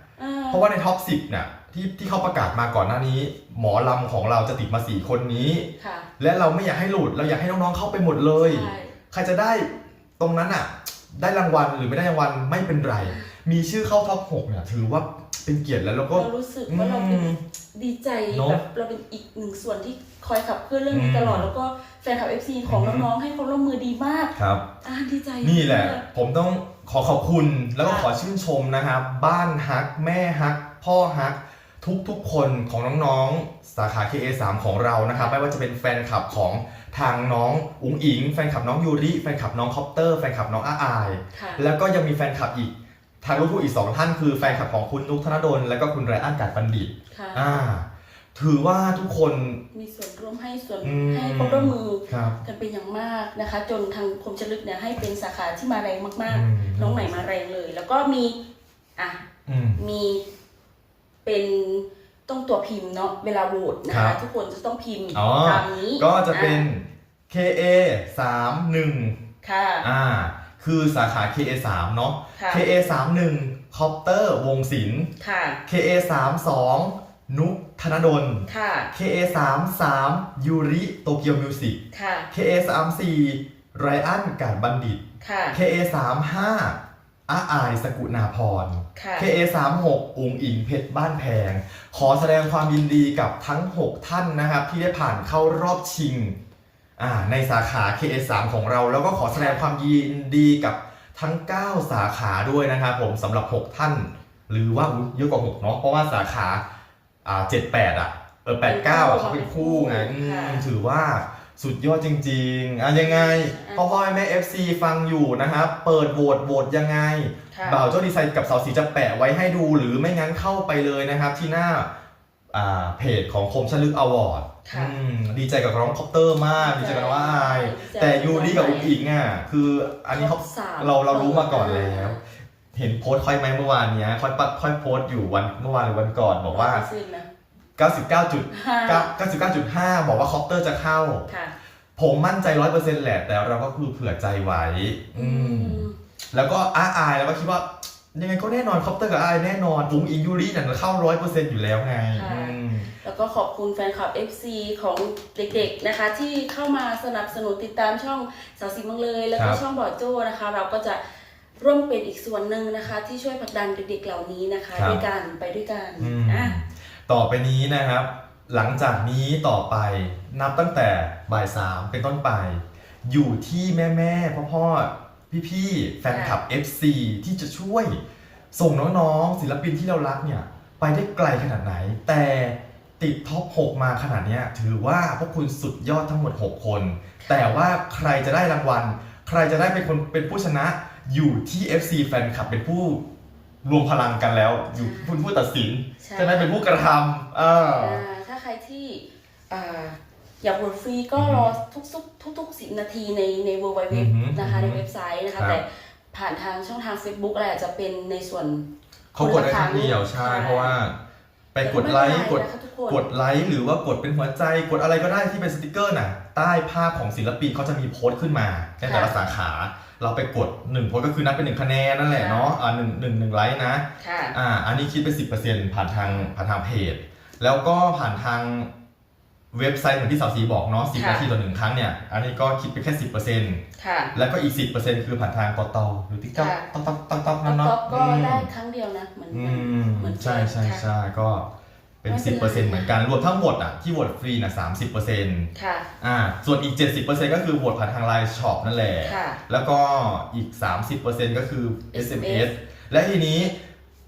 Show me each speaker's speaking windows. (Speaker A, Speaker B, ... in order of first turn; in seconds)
Speaker A: 0.2-0.7, 5.8-6.1, 8.4-8.9, 13.0-13.3, 16.1-26.0, 27.8-28.1, 41.3-41.6, 47.1-47.6, 49.7-58.4, 59.0-59.2, 59.8-60.2, 61.2-66.7, 69.4-69.9, 72.3-72.7, 75.2-75.6, 78.5-78.9, 81.9-82.3, 85.2-85.6, 88.9-89.3, 99.3-99.6, 108.6-110.7, 113.0-113.9, 117.5-117.9, 124.6-124.9, 126.5-128.9, 130.1-132.2, 136.5-137.3, 138.5-139.1, 141.3-141.5, 145.1-145.9, 152.1-161.0, 161.6-166.5, 176.1-176.4, 187.2-187.6, 194.7-195.2, 196.0-196.6, 197.7-210.8, 211.6-213.1, 218.8-219.1, 222.1-222.6, 224.0-224.3, 226.0-226.3, 230.9-231.2, 233.8-234.1, 236.3-236.7, 237.4-240.9, 242.1-242.9, 245.5-245.9, 249.0-249.4, 251.9-252.5
Speaker B: 0.5-5.7, 6.2-17.4, 18.3-18.6, 20.9-21.5, 22.6-23.1, 24.4-24.6, 25.4-49.6, 50.8-52.4, 56.3-57.1, 59.5-59.8, 63.9-64.2, 65.1-69.2, 69.8-75.1, 75.7-81.8, 82.3-85.0, 85.5-96.3, 97.0-106.6, 107.2-121.9, 122.5-132.2, 132.7-136.8, 137.8-141.3, 142.0-152.9, 159.3-159.6, 164.7-165.0, 166.0-178.0, 178.5-193.0, 193.6-198.0, 201.2-201.5, 203.9-204.8, 209.1-210.9, 211.5-228.7, 229.5-233.6, 234.1-238.5, 239.3-241.4, 242.0-245.5, 246.0-253.5